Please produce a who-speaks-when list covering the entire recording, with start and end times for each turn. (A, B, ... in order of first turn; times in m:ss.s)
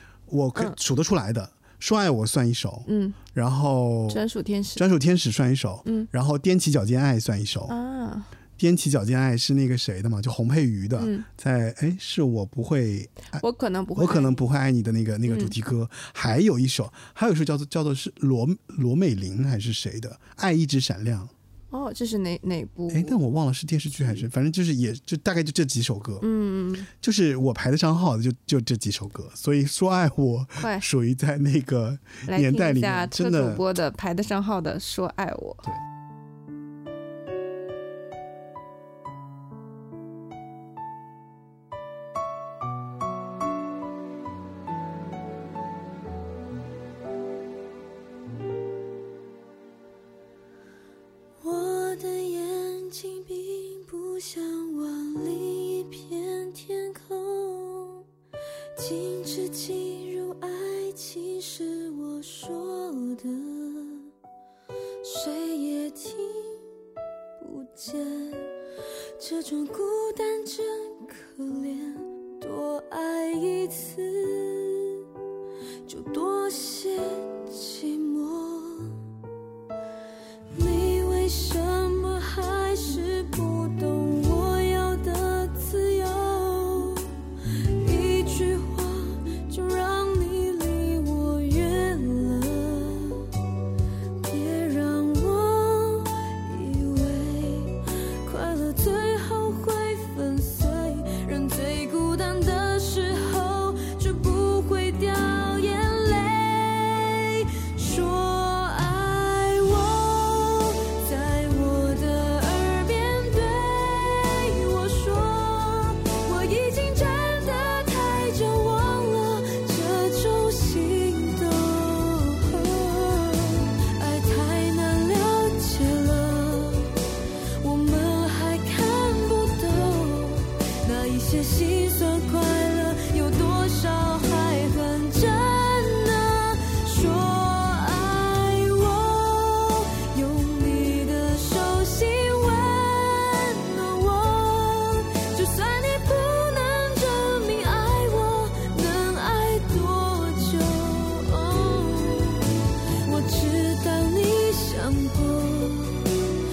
0:00.3-0:04.2 A
0:02.9-0:03.2 B
0:04.1-0:04.8 B
0:04.8-0:07.8 A
0:07.7-0:08.3 B
0:08.6-0:13.4 A
0:11.0-0:11.3 B
0:13.4-0:14.4 B
0:14.0-0:21.3 A
0:15.3-0:15.5 B
0:21.7-0:23.2 B
0:22.9-0:26.2 A
0:26.2-0:26.9 B
0:26.9-0:33.6 A
0:30.6-0:30.8 B
0:32.3-0:35.7 B
0:51.4-0:58.0 C
0:58.8-1:04.1 C
1:05.0-1:06.6 C
1:07.4-1:08.5 C
1:09.2-1:15.0 C
1:15.9-1:19.0 C
1:20.6-1:27.1 C
1:27.8-1:33.3 C
1:34.2-2:07.0 C
2:07.6-2:32.4 C
2:33.0-2:36.2 C